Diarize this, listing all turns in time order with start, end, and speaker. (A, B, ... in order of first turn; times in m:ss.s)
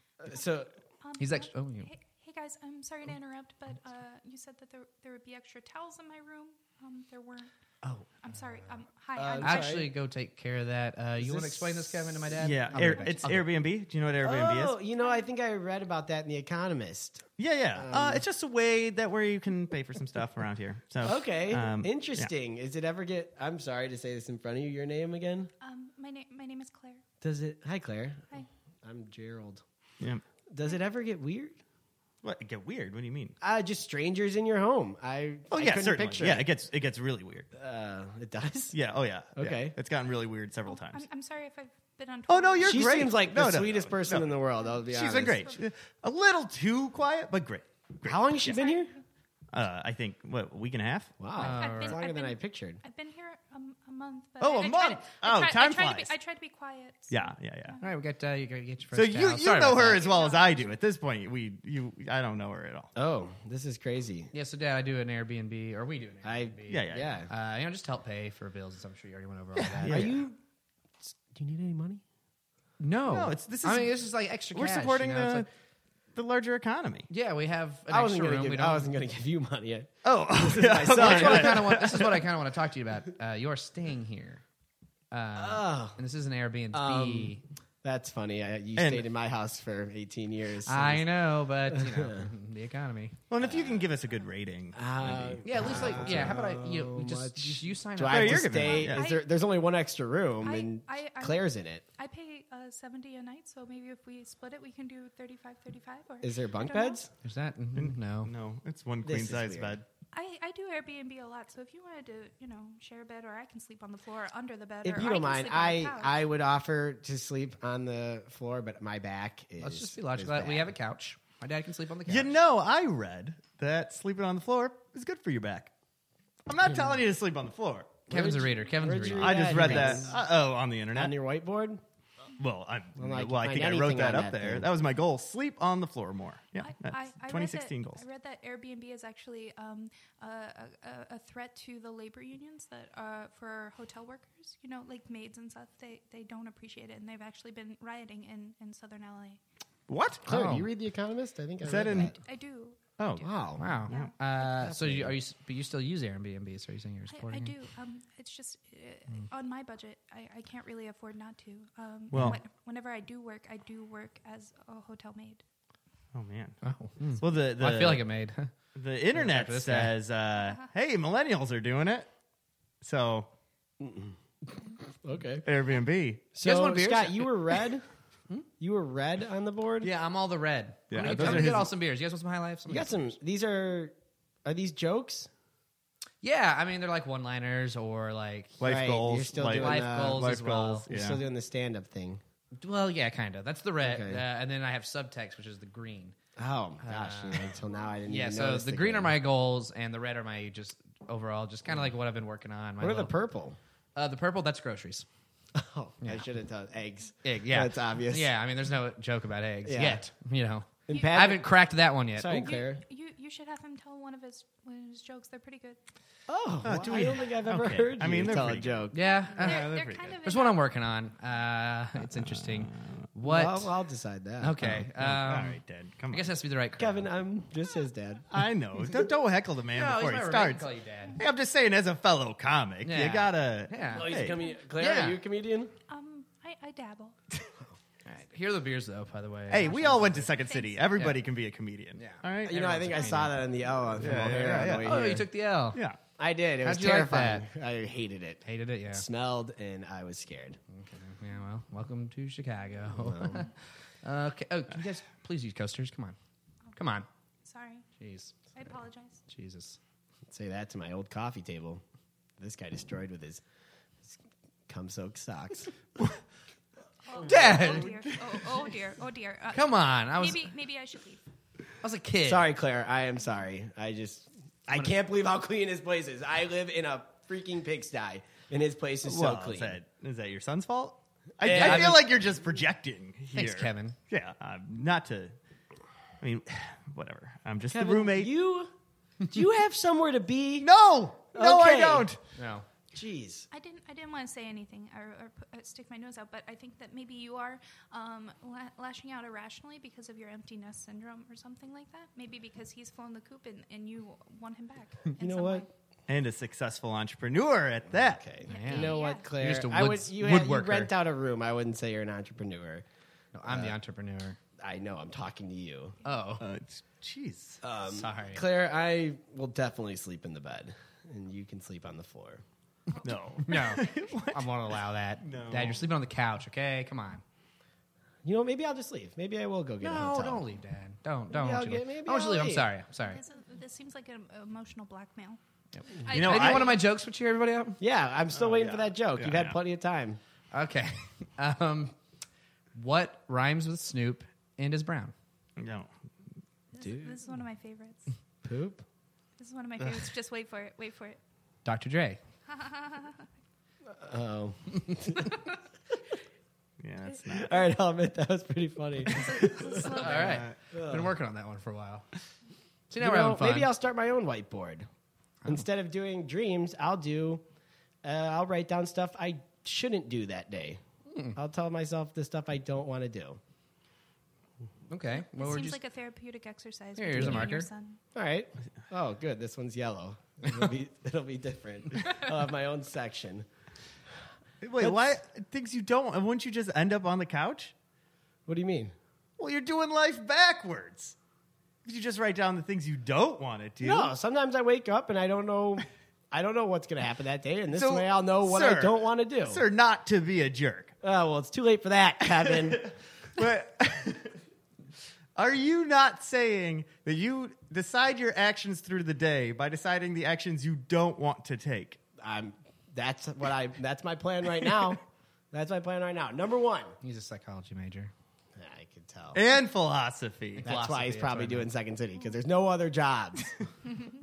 0:00.2-0:00.7 A
0:01.0-0:07.5 B
0:01.2-0:01.9 C
0:08.2-0:09.9 B
0:09.2-0:09.9 A
0:09.4-0:13.4 C
0:11.2-0:13.0 A
0:12.4-0:14.8 D
0:14.2-0:18.2 A
0:15.0-0:15.2 B
0:17.4-0:22.3 D
0:21.0-0:25.5 A
0:25.6-0:27.0 B
0:27.2-0:29.6 A
0:30.5-0:31.6 A
0:32.2-0:33.4 D
0:33.4-0:36.5 A
0:35.5-0:37.5 D
0:37.5-0:38.8 A
0:38.7-0:41.0 D
0:39.4-0:39.8 A
0:40.7-0:43.1 B
0:42.3-0:44.3 D
0:42.6-0:45.5 A
0:44.9-0:48.6 D
0:44.9-0:45.6 B
0:48.0-0:48.9 A
0:48.4-0:49.0 B
0:49.5-0:51.1 D
0:51.2-0:52.8 A
0:51.4-0:52.0 C
0:51.4-0:57.9 B
0:54.4-0:56.1 D
0:57.1-0:57.8 D
0:57.8-1:00.1 C
0:58.9-1:02.9 D
0:59.8-1:00.8 B
1:03.0-1:04.3 A
1:04.3-1:10.2 C
1:06.2-1:07.3 A
1:06.7-1:07.2 D
1:09.6-1:10.2 D
1:09.9-1:10.4 A
1:11.0-1:12.0 A
1:12.8-1:15.5 C
1:13.1-1:14.0 D
1:14.5-1:15.5 D
1:16.1-1:17.1 D
1:17.1-1:18.9 C
1:17.9-1:22.0 A
1:20.0-1:22.3 D
1:20.9-1:24.4 C
1:25.1-1:27.4 C
1:25.4-1:26.0 A
1:26.7-1:31.1 A
1:28.8-1:29.1 D
1:30.6-1:33.2 C
1:31.7-1:32.3 A
1:33.3-1:36.4 D
1:33.4-1:33.8 A
1:34.8-1:41.8 A
1:35.4-1:38.8 C
1:38.0-1:39.1 D
1:38.6-1:39.3 B
1:40.4-1:47.0 B
1:46.2-1:47.1 A
1:47.2-1:48.3 C
1:47.8-1:49.9 D
1:49.0-1:49.8 A
1:50.1-1:56.2 B
1:54.8-2:00.7 A
1:59.6-2:02.4 C
2:02.1-2:05.7 D
2:06.5-2:08.1 D
2:08.1-2:10.1 C
2:08.1-2:10.2 A
2:09.1-2:11.1 D
2:11.0-2:11.8 A
2:12.4-2:18.0 D
2:13.0-2:14.7 A
2:16.6-2:29.4 B
2:29.9-2:30.3 D
2:30.3-2:30.7 C
2:30.3-2:32.2 A
2:31.6-2:32.2 D
2:32.2-2:33.3 B
2:33.0-2:34.1 D
2:33.2-2:33.8 A
2:33.6-2:37.6 C
2:33.9-2:34.2 B
2:34.6-2:35.2 A
2:37.1-2:45.4 B
2:42.1-2:42.4 D
2:46.1-2:46.6 D
2:46.6-2:48.5 C
2:47.2-2:48.1 D
2:48.8-2:52.1 D
2:49.1-2:49.9 C
2:50.4-2:50.7 B
2:52.8-2:53.3 D
2:53.8-2:54.2 A
2:54.9-2:55.5 A
2:55.4-2:56.3 D
2:56.3-2:57.8 A
2:56.4-2:57.6 C
2:58.6-2:59.9 A
2:59.8-3:03.1 C
3:00.9-3:01.7 D
3:01.0-3:01.7 A
3:02.7-3:03.9 A
3:04.4-3:05.3 A
3:06.2-3:08.6 C
3:08.6-3:11.2 D
3:08.6-3:10.3 A
3:09.5-3:10.9 C
3:10.9-3:12.2 A
3:12.6-3:16.2 C
3:13.8-3:14.2 A
3:16.4-3:19.1 A
3:16.8-3:23.2 C
3:22.8-3:23.6 A
3:24.0-3:25.1 C
3:25.6-3:28.3 A
3:27.2-3:32.6 C
3:29.6-3:30.0 A
3:30.9-3:31.5 A
3:32.2-3:32.8 A
3:32.4-3:35.8 B
3:36.3-3:39.0 A
3:36.6-3:40.2 D
3:38.9-3:43.7 C
3:39.0-3:40.7 B
3:42.1-3:43.1 D
3:43.2-3:44.8 A
3:44.4-3:45.6 C
3:44.6-3:46.3 D
3:46.1-3:47.1 C
3:46.8-3:48.3 A
3:48.3-3:54.4 D
3:49.7-3:51.2 C
3:52.8-3:54.2 C
3:53.9-3:55.7 A
3:54.8-3:55.2 C
3:55.9-3:57.2 B
3:58.0-4:00.3 C
3:59.5-4:02.6 D
4:00.5-4:00.9 B
4:02.0-4:03.4 C
4:02.4-4:05.3 A
4:04.0-4:05.2 D
4:04.0-4:05.8 C
4:05.7-4:06.0 D
4:06.2-4:10.6 A
4:06.6-4:07.5 C
4:08.4-4:09.0 C
4:10.7-4:16.2 C
4:12.9-4:13.5 A
4:16.8-4:17.1 C
4:17.4-4:17.9 B
4:18.0-4:18.5 C
4:18.5-4:19.2 B
4:19.3-4:19.8 C
4:20.3-4:21.8 A
4:22.4-4:23.4 A
4:24.7-4:25.7 A
4:27.0-4:31.2 B
4:27.2-4:27.8 A
4:27.2-4:28.0 C
4:29.5-4:30.5 C
4:31.8-4:32.5 C
4:32.2-4:39.8 A
4:39.0-4:45.4 D
4:41.4-4:42.0 A
4:41.4-4:42.0 C
4:43.4-4:44.0 C
4:46.2-4:48.3 D
4:47.7-4:48.7 A
4:49.3-4:50.7 A
4:50.6-4:52.2 D
4:51.3-4:52.1 A
4:52.4-4:52.7 C
4:52.9-4:53.5 A
4:53.5-5:05.7 B
5:05.2-5:05.7 A
5:06.1-5:08.4 D
5:08.0-5:12.8 A
5:08.5-5:09.3 B
5:08.5-5:10.9 C
5:13.3-5:14.4 C
5:13.5-5:13.8 A
5:14.6-5:16.0 A
5:16.0-5:16.5 C
5:16.4-5:17.6 D
5:17.6-5:22.4 A
5:17.9-5:18.4 C
5:23.0-5:25.9 D
5:23.5-5:27.2 C
5:28.2-5:30.4 A
5:29.8-5:33.2 C
5:31.3-5:32.7 A
5:33.0-5:35.4 B
5:35.7-5:37.8 C
5:36.0-5:36.8 B
5:36.1-5:36.8 D
5:37.8-5:40.2 A
5:38.3-5:39.6 D
5:40.5-5:42.0 C
5:42.8-5:45.1 C
5:45.6-5:45.9 D
5:46.7-5:48.1 B
5:46.8-5:47.2 A
5:48.4-5:48.8 A
5:49.4-5:51.2 B
5:51.6-5:52.2 C
5:52.5-5:53.2 B
5:53.9-5:55.4 A
5:56.8-5:57.6 D
5:57.3-6:00.0 A
5:59.1-6:00.5 B
5:59.8-6:02.1 C
6:00.0-6:00.6 D
6:00.7-6:01.1 A
6:02.9-6:03.7 C
6:03.0-6:04.9 A
6:05.4-6:07.4 A
6:08.0-6:10.8 A
6:11.3-6:13.4 A
6:14.9-6:15.8 C
6:15.2-6:18.0 B
6:17.0-6:17.7 C
6:18.2-6:23.5 A
6:24.6-6:27.7 D
6:24.8-6:25.1 A
6:28.5-6:29.0 A
6:29.4-6:31.2 D
6:31.8-6:34.1 D
6:33.8-6:39.6 A
6:37.8-6:41.0 D
6:41.0-6:43.0 A
6:42.4-6:44.4 D
6:45.4-6:52.0 D
6:52.2-6:57.0 A
6:57.0-6:58.1 C
6:58.6-6:59.4 A
6:59.3-7:00.7 D
7:00.6-7:01.7 C
7:00.6-7:03.5 A